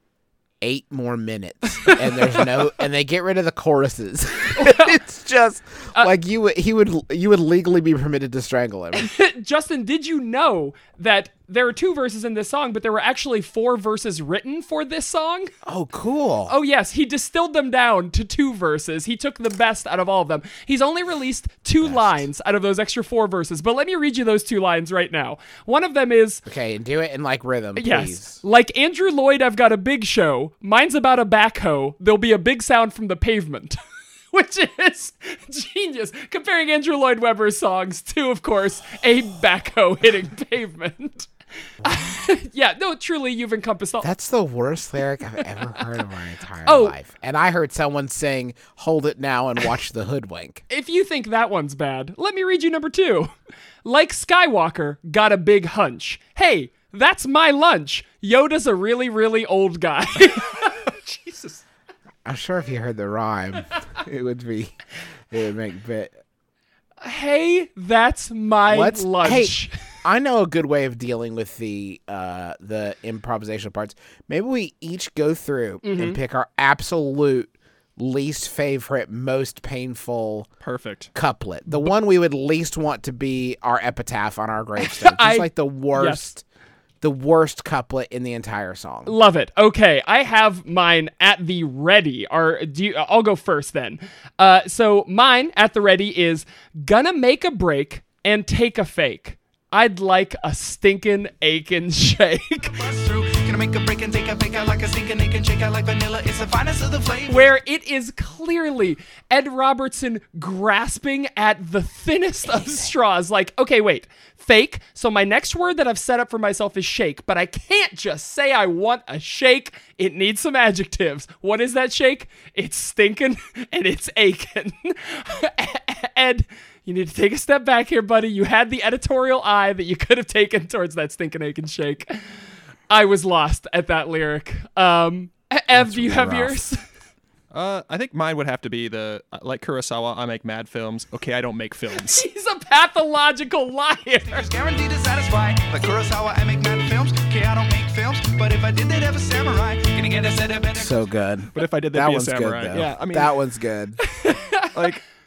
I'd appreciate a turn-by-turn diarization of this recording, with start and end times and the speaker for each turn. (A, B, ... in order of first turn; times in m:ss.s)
0:00.6-0:09.1 A
0:04.6-0:04.9 B
0:08.9-0:15.5 B
0:15.6-0:16.5 A
0:16.5-0:26.4 B
0:21.8-0:22.3 A
0:26.4-0:28.4 A
0:27.8-0:33.8 B
0:34.3-0:41.3 B
0:41.8-0:44.1 B
0:44.0-0:50.6 A
0:46.6-0:47.0 B
0:50.7-0:53.3 B
0:53.8-1:00.8 B
1:00.9-1:01.6 C
1:02.2-1:06.1 A
1:07.0-1:09.7 B
1:08.7-1:20.5 A
1:15.8-1:16.2 B
1:20.6-1:21.1 C
1:21.1-1:26.4 A
1:24.8-1:26.2 B
1:27.0-1:29.1 A
1:29.0-1:42.8 B
1:42.7-1:47.5 D
1:47.3-2:12.2 B
1:52.5-1:52.9 A
2:12.9-2:16.8 B
2:15.7-2:16.6 A
2:17.5-2:22.2 C
2:22.0-2:24.5 B
2:24.3-2:31.0 D
2:30.7-2:34.0 A
2:31.5-2:33.3 C
2:34.0-2:35.0 B
2:34.7-2:35.0 C